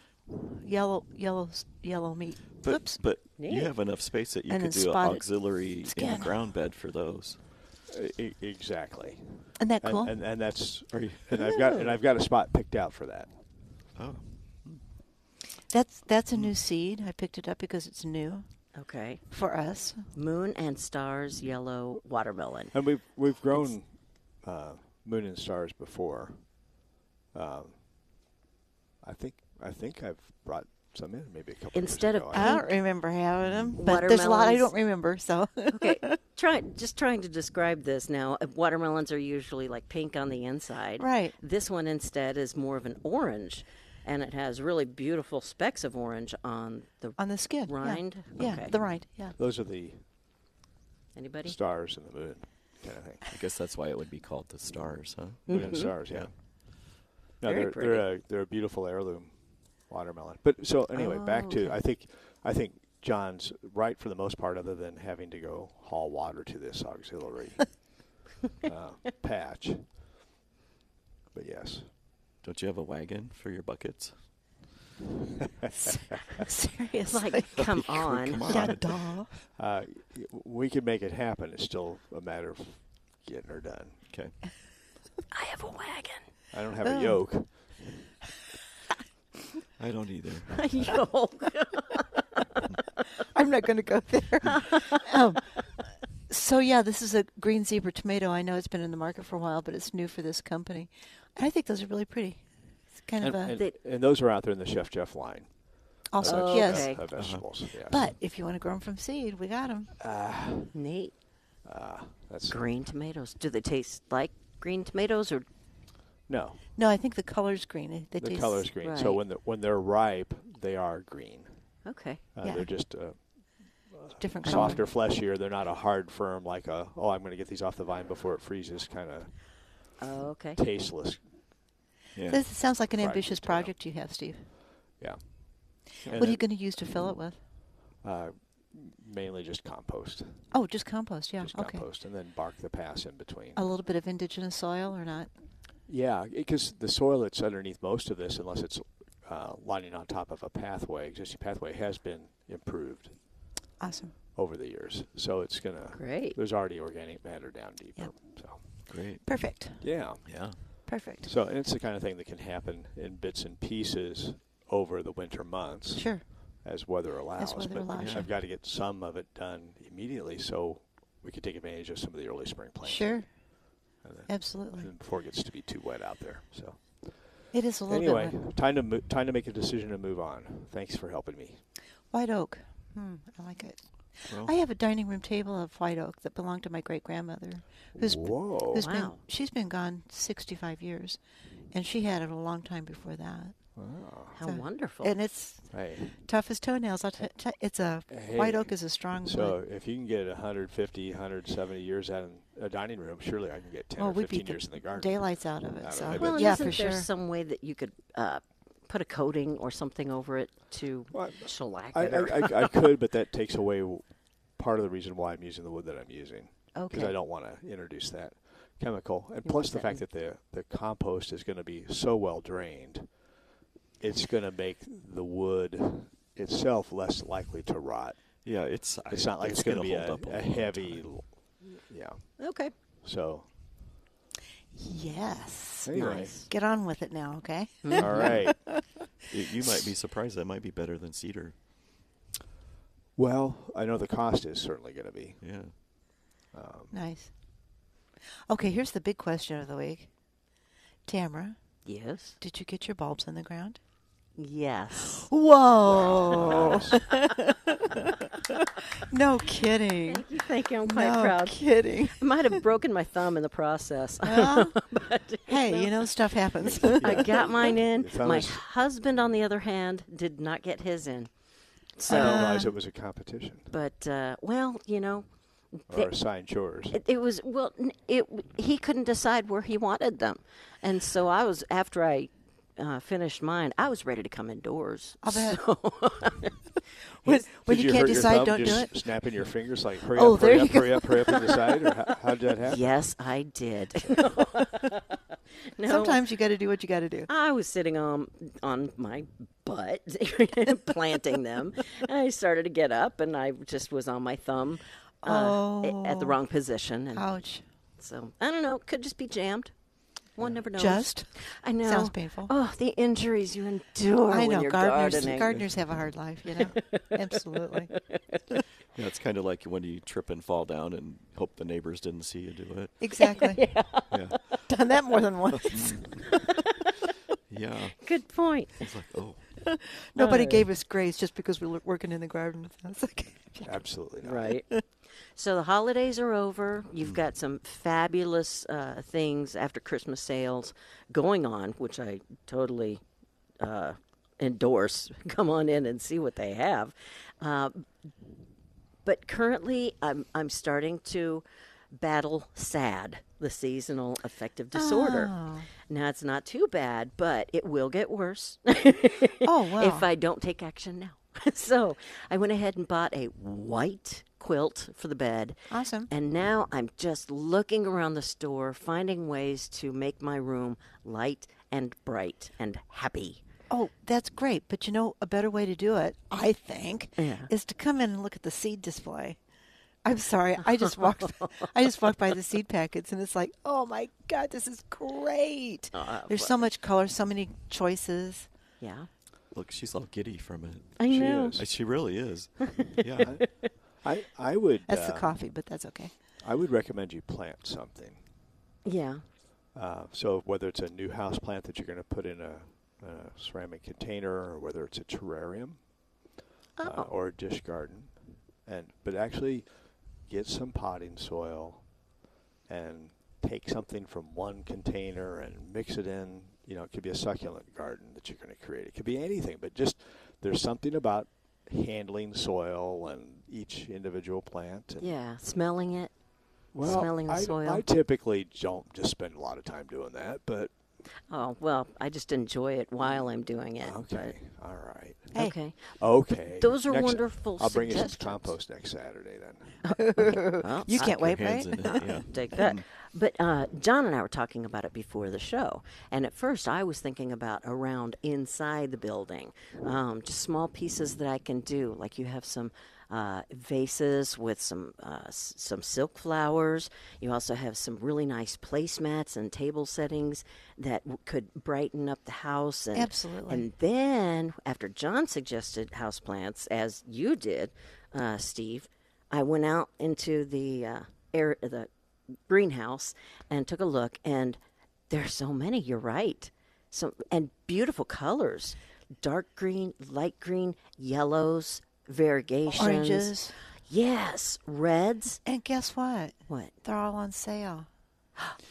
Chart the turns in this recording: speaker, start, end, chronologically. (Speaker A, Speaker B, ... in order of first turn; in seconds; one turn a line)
Speaker A: 0.3-3.0
Speaker B: 2.6-7.4
Speaker C: 3.4-3.7
Speaker A: 4.5-6.4
Speaker D: 7.9-13.3
Speaker A: 9.6-10.1
Speaker B: 10.9-11.3
Speaker C: 11.5-11.9
Speaker B: 13.9-14.8
Speaker A: 15.7-18.4
Speaker C: 18.7-19.2
Speaker A: 19.3-20.1
Speaker C: 20.1-22.7
Speaker D: 22.7-26.7
Speaker D: 27.3-27.8
Speaker D: 29.0-32.6
Speaker C: 31.7-32.7
Speaker A: 32.3-36.2
Speaker B: 33.4-33.8
Speaker C: 33.8-34.7
Speaker C: 35.7-48.7
Speaker A: 41.0-41.4
Speaker A: 47.2-49.4
Speaker D: 49.4-50.0
Speaker C: 51.1-51.5
Speaker D: 51.4-53.2
Speaker B: 53.3-56.3
Speaker C: 55.5-55.9
Speaker D: 55.5-56.3
Speaker D: 57.4-68.0
Speaker C: 57.4-58.0
Speaker A: 60.9-61.8
Speaker D: 68.6-70.0
Speaker D: 71.3-71.9
Speaker B: 72.4-74.2
Speaker A: 75.8-77.7
Speaker C: 77.1-78.6
Speaker B: 77.5-79.1
Speaker A: 78.4-79.3
Speaker D: 79.5-84.0
Speaker B: 84.1-84.3
Speaker C: 85.3-86.3
Speaker D: 86.5-87.6
Speaker A: 86.8-87.2
Speaker B: 89.8-91.0
Speaker C: 90.5-92.4
Speaker A: 93.3-95.6
Speaker A: 96.3-103.6
Speaker D: 103.2-108.0
Speaker A: 106.1-109.9
Speaker C: 106.2-107.0
Speaker B: 107.1-108.0
Speaker D: 110.0-110.7
Speaker C: 110.7-111.1
Speaker D: 111.6-112.7
Speaker C: 112.5-115.5
Speaker D: 116.3-116.6
Speaker A: 116.8-118.7
Speaker D: 118.2-121.6
Speaker C: 118.8-119.2
Speaker C: 121.8-122.2
Speaker D: 122.3-129.9
Speaker A: 122.4-122.7
Speaker A: 124.2-124.8
Speaker C: 124.5-124.8
Speaker C: 130.0-130.6
Speaker D: 130.6-131.2
Speaker B: 132.1-132.4
Speaker A: 132.3-134.4
Speaker D: 132.9-133.7
Speaker D: 135.0-136.4
Speaker A: 136.1-137.3
Speaker D: 138.0-140.4
Speaker A: 140.5-141.8
Speaker D: 141.4-143.6
Speaker A: 143.5-145.3
Speaker D: 145.9-153.2
Speaker A: 153.8-154.1
Speaker D: 154.3-158.6
Speaker C: 155.9-156.4
Speaker B: 158.9-159.2
Speaker A: 159.2-159.9
Speaker D: 159.8-173.2
Speaker B: 160.2-160.6
Speaker A: 160.9-161.3
Speaker A: 165.9-166.3
Speaker A: 167.4-168.3
Speaker B: 167.9-168.2
Speaker A: 172.8-173.3
Speaker D: 174.0-177.3
Speaker A: 174.3-174.9
Speaker A: 177.5-178.5
Speaker D: 177.9-181.6
Speaker A: 182.1-191.2
Speaker D: 188.0-188.9
Speaker C: 188.7-189.2
Speaker A: 191.7-193.6
Speaker D: 193.8-194.3
Speaker C: 194.3-195.1
Speaker A: 194.4-199.6
Speaker D: 195.7-196.1
Speaker D: 198.1-206.7
Speaker A: 204.0-207.1
Speaker B: 206.1-206.6
Speaker C: 206.1-212.8
Speaker D: 211.1-223.2
Speaker C: 216.7-217.2
Speaker C: 219.4-220.0
Speaker D: 224.0-228.2
Speaker B: 228.4-231.1
Speaker D: 229.1-232.4
Speaker C: 232.4-232.7
Speaker D: 233.0-233.5
Speaker A: 234.7-238.8
Speaker D: 235.8-236.4
Speaker C: 235.9-236.5
Speaker C: 237.8-238.3
Speaker D: 238.0-238.6
Speaker B: 238.0-238.3
Speaker B: 239.3-241.5
Speaker D: 243.2-245.4
Speaker B: 245.4-245.7
Speaker D: 246.5-246.9
Speaker A: 246.9-247.3
Speaker A: 248.5-250.1
Speaker A: 251.1-251.6
Speaker C: 251.8-252.4
Speaker A: 252.4-253.8
Speaker C: 254.4-255.3
Speaker A: 255.2-260.2
Speaker D: 255.8-257.1
Speaker C: 260.1-266.1
Speaker A: 260.8-262.6
Speaker A: 264.2-264.8
Speaker A: 265.4-267.4
Speaker D: 266.6-268.6
Speaker C: 266.9-271.3
Speaker C: 271.9-272.5
Speaker A: 272.1-272.7
Speaker D: 272.1-273.7
Speaker C: 273.7-276.1
Speaker D: 275.9-277.0
Speaker C: 276.9-286.6
Speaker A: 285.2-285.6
Speaker C: 287.2-287.5
Speaker A: 287.2-289.1
Speaker D: 287.6-292.8
Speaker A: 290.1-291.9
Speaker C: 292.6-295.0
Speaker C: 295.7-296.2
Speaker A: 295.8-297.3
Speaker C: 297.3-307.2
Speaker A: 305.2-306.4
Speaker A: 307.1-307.6
Speaker C: 308.0-309.7
Speaker C: 310.3-315.6
Speaker A: 310.7-312.5
Speaker A: 314.3-317.9
Speaker C: 316.6-318.4
Speaker B: 318.9-323.0
Speaker A: 323.0-323.8
Speaker C: 323.2-324.1
Speaker B: 324.1-324.7
Speaker A: 324.6-326.5
Speaker B: 325.5-326.4
Speaker B: 327.5-328.1
Speaker C: 328.0-328.7
Speaker B: 328.6-329.5
Speaker A: 329.7-333.9
Speaker C: 330.2-330.6
Speaker D: 333.6-334.5
Speaker C: 334.2-334.7
Speaker C: 335.3-343.0
Speaker C: 343.6-347.9
Speaker C: 349.0-355.3
Speaker A: 354.7-355.7
Speaker C: 355.9-365.6
Speaker A: 359.4-360.1
Speaker A: 365.7-366.1
Speaker C: 366.1-373.4
Speaker A: 373.7-379.4
Speaker C: 377.2-377.5
Speaker A: 380.0-388.5
Speaker C: 380.8-381.5
Speaker C: 385.9-386.6
Speaker C: 388.8-389.1
Speaker B: 389.5-391.0
Speaker C: 391.0-391.6
Speaker D: 391.1-391.7
Speaker B: 391.6-393.4
Speaker D: 394.0-395.3
Speaker A: 394.9-396.1
Speaker D: 396.4-398.2
Speaker C: 398.8-399.2
Speaker D: 399.7-405.9
Speaker C: 406.8-407.1
Speaker D: 406.8-411.9
Speaker D: 412.6-425.1
Speaker C: 425.0-426.1
Speaker D: 426.7-430.7
Speaker C: 426.8-427.8
Speaker C: 431.3-434.3
Speaker D: 433.8-435.3
Speaker C: 435.3-438.6
Speaker D: 435.8-439.8
Speaker C: 439.8-471.9
Speaker A: 440.0-442.3
Speaker B: 440.9-442.8
Speaker A: 462.9-463.6
Speaker C: 472.5-474.6
Speaker C: 475.1-485.4
Speaker A: 482.7-483.5
Speaker A: 485.4-487.9
Speaker C: 486.5-486.7